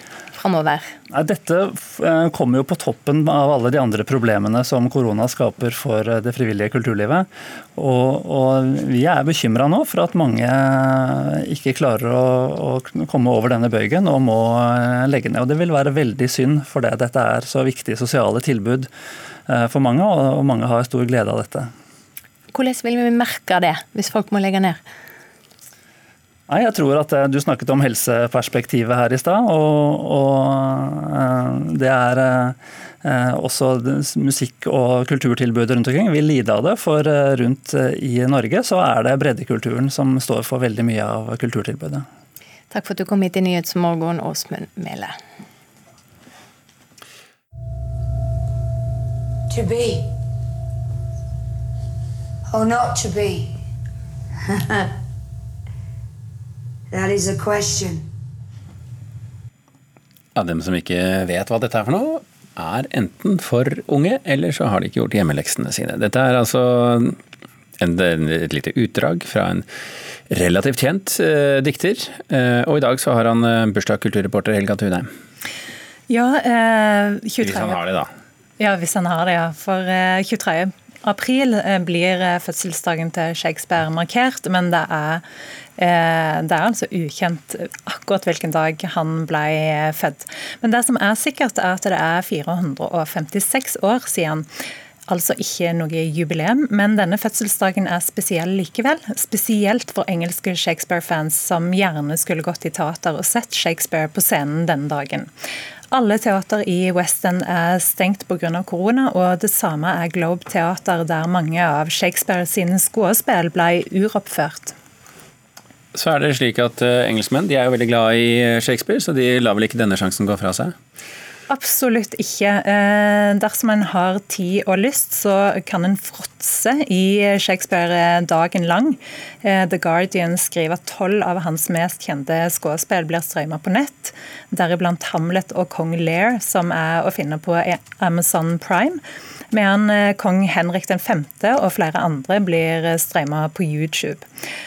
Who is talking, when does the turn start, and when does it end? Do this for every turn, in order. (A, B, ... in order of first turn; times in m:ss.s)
0:00.4-0:00.8 A
0:01.1-0:18.9 B
0:19.5-0:21.7 B
0:22.5-0:24.8 A
0:26.5-0:42.0 B
0:42.7-0:45.1 A
0:49.5-0:50.1 C
0:52.5-0:53.5 C
0:56.9-0:58.0 C
1:00.3-1:07.2 D
1:07.8-1:09.6 D
1:10.3-1:15.1 D
1:16.1-1:17.8 E
1:17.4-1:18.1 D
1:18.6-1:25.2 E
1:25.8-1:34.4 E
1:35.1-1:45.3 E
1:45.9-1:54.7 E
1:55.9-2:00.7 D
2:01.5-2:24.2 E